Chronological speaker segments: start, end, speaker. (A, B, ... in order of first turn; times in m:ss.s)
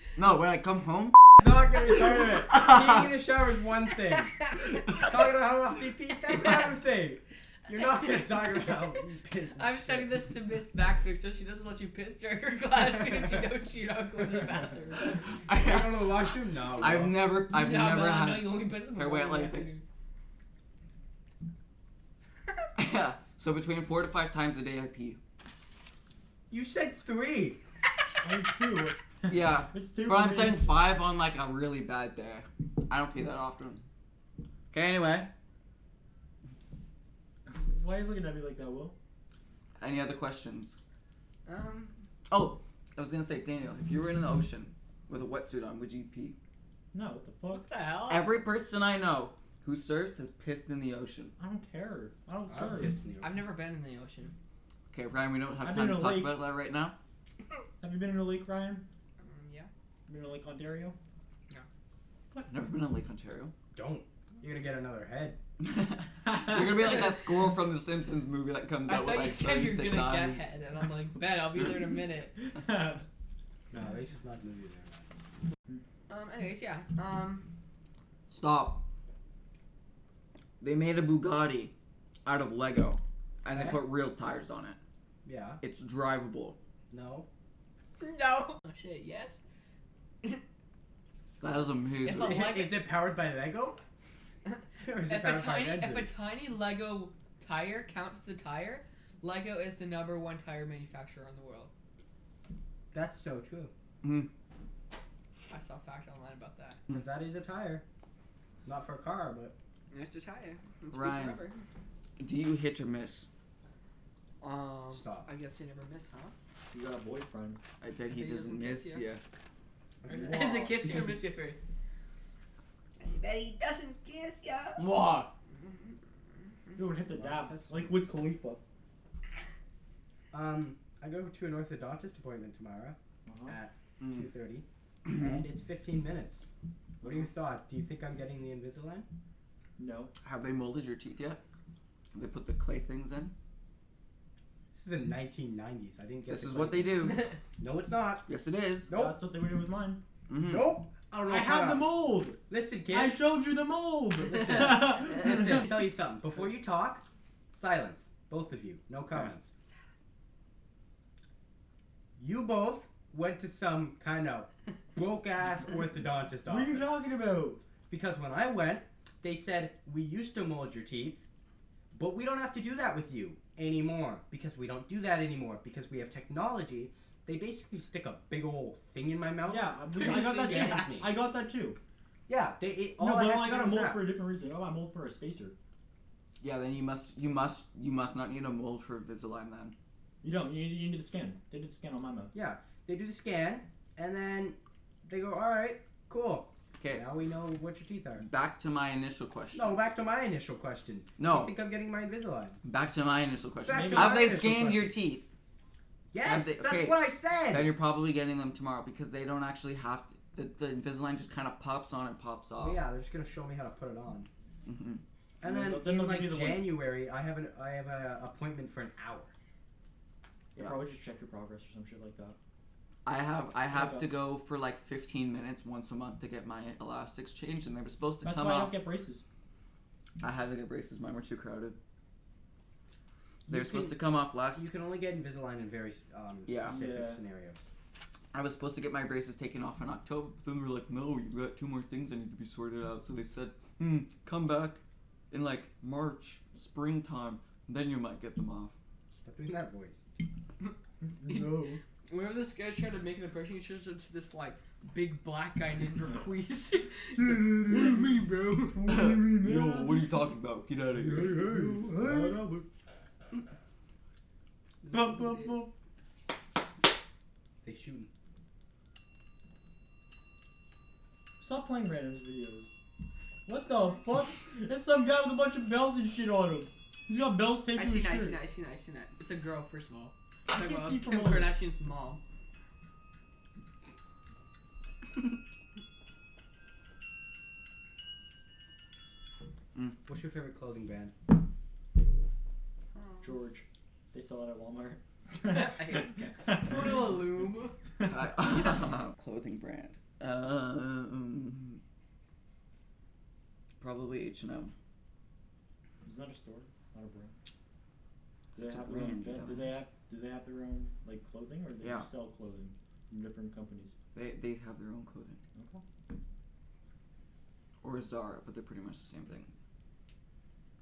0:00.2-0:01.4 A
0:01.4-0:04.4 B
0:02.3-0:03.1 A
0:04.3-0:04.6 C
0:04.9-0:10.3 B
0:08.0-0:08.8 C
0:09.6-0:15.3 C
0:12.8-0:13.4 B
0:15.4-0:19.7 A
0:15.5-0:17.3 B
0:16.9-0:19.8 C
0:22.8-0:25.2 A
0:26.5-0:27.6 B
0:28.2-0:30.7 D
0:29.3-0:33.8 A
0:34.7-0:35.3 A
0:37.5-0:39.0 D
0:39.8-0:40.8 A
0:41.5-0:42.0 C
0:42.3-0:46.4 A
0:46.9-0:47.7 D
0:47.5-0:48.3 C
0:48.1-0:51.3 A
0:51.4-0:53.0 D
0:52.5-0:53.4 B
0:53.2-0:54.3 C
0:54.9-0:57.0 A
0:55.6-0:56.4 D
0:57.8-0:58.8 D
0:59.2-0:59.7 C
1:00.1-1:01.0 D
1:02.4-1:03.5 A
1:03.8-1:05.4 B
1:05.6-1:10.5 A
1:08.9-1:12.3 C
1:12.5-1:13.0 D
1:13.7-1:15.1 B
1:16.1-1:17.4 C
1:18.3-1:18.8 A
1:20.6-1:21.7 A
1:22.2-1:24.8 A
1:23.5-1:23.8 B
1:25.2-1:25.6 B
1:25.6-1:26.6 A
1:26.9-1:27.3 B
1:28.0-1:29.4 C
1:31.4-1:32.5 A
1:32.0-1:32.7 C
1:32.2-1:33.8 B
1:34.4-1:41.7 C
1:34.8-1:36.1 B
1:42.9-1:43.7 B
1:44.0-1:44.3 A
1:45.5-1:46.8 C
1:46.9-1:47.8 B
1:48.6-1:49.5 B
1:49.9-1:51.6 C
1:50.9-1:51.4 A
1:52.2-1:53.3 A
1:54.4-1:56.3 C
1:54.9-1:55.3 B
1:56.7-1:57.6 D
1:57.8-1:59.2 A
1:58.1-1:59.0 C
2:00.0-2:00.6 B
2:00.1-2:01.6 C
2:00.1-2:01.2 D
2:03.0-2:04.8 C
2:04.8-2:05.3 A
2:05.6-2:05.9 C
2:06.8-2:08.6 D
2:07.2-2:08.0 B
2:10.3-2:16.5 B
2:13.3-2:13.6 D
2:14.0-2:14.3 A
2:15.1-2:15.4 A
2:17.0-2:19.1 B
2:19.8-2:20.1 D
2:20.2-2:21.4 A
2:22.1-2:23.3 A
2:24.7-2:28.3 B
2:26.3-2:27.3 A
2:28.3-2:28.9 A
2:28.9-2:29.2 B
2:28.9-2:30.0 D
2:30.3-2:30.8 A
2:30.4-2:33.2 B
2:31.3-2:35.7 D
2:34.3-2:39.5 B
2:34.4-2:34.9 C
2:42.2-2:47.0 B
2:46.5-2:47.6 D
2:47.9-2:51.3 B
2:51.9-3:01.1 B
2:59.5-3:01.8 D
3:00.0-3:01.0 C
3:02.3-3:04.1 B
3:03.0-3:05.6 D
3:06.4-3:09.8 A
3:10.2-3:12.3 D
3:12.3-3:18.2 B
3:16.8-3:17.0 A
3:18.2-3:19.8 A
3:19.5-3:22.6 B
3:21.2-3:21.5 A
3:22.6-3:25.3 A
3:23.7-3:24.9 B
3:23.7-3:24.4 D
3:26.1-3:27.7 B
3:26.2-3:32.8 A
3:32.6-3:34.3 B
3:34.6-3:35.0 A
3:35.4-3:39.3 B
3:35.4-3:36.8 D
3:40.6-3:42.4 D
3:40.6-3:40.8 A
3:43.0-3:48.8 A
3:43.7-3:44.1 D
3:48.2-3:49.2 D
3:50.2-3:51.8 A
3:53.5-3:57.6 B
3:53.5-3:54.7 A
3:56.5-3:56.8 A
3:56.7-3:57.2 D
3:58.3-4:08.7 A
4:09.2-4:10.0 B
4:11.0-4:11.8 D
4:11.2-4:18.9 C
4:17.2-4:18.1 D
4:18.7-4:20.3 D
4:18.9-4:21.4 A
4:21.0-4:22.6 D
4:21.1-4:22.6 B
4:24.8-4:25.7 C
4:24.9-4:25.7 D
4:27.6-4:28.1 B
4:31.4-4:32.7 D
4:33.5-4:38.4 D
4:37.7-4:42.2 C
4:40.5-4:41.6 D
4:50.1-4:51.1 B
4:53.0-4:53.3 C
4:53.2-4:57.1 D
4:55.4-4:57.8 C
4:58.0-5:01.8 A
4:58.6-4:58.8 C
5:03.8-5:04.7 A
5:06.0-5:07.3 D
5:08.6-5:13.9 D
5:08.6-5:09.8 A
5:11.8-5:12.1 A
5:14.1-5:15.4 A
5:15.6-5:15.8 D
5:17.8-5:19.5 A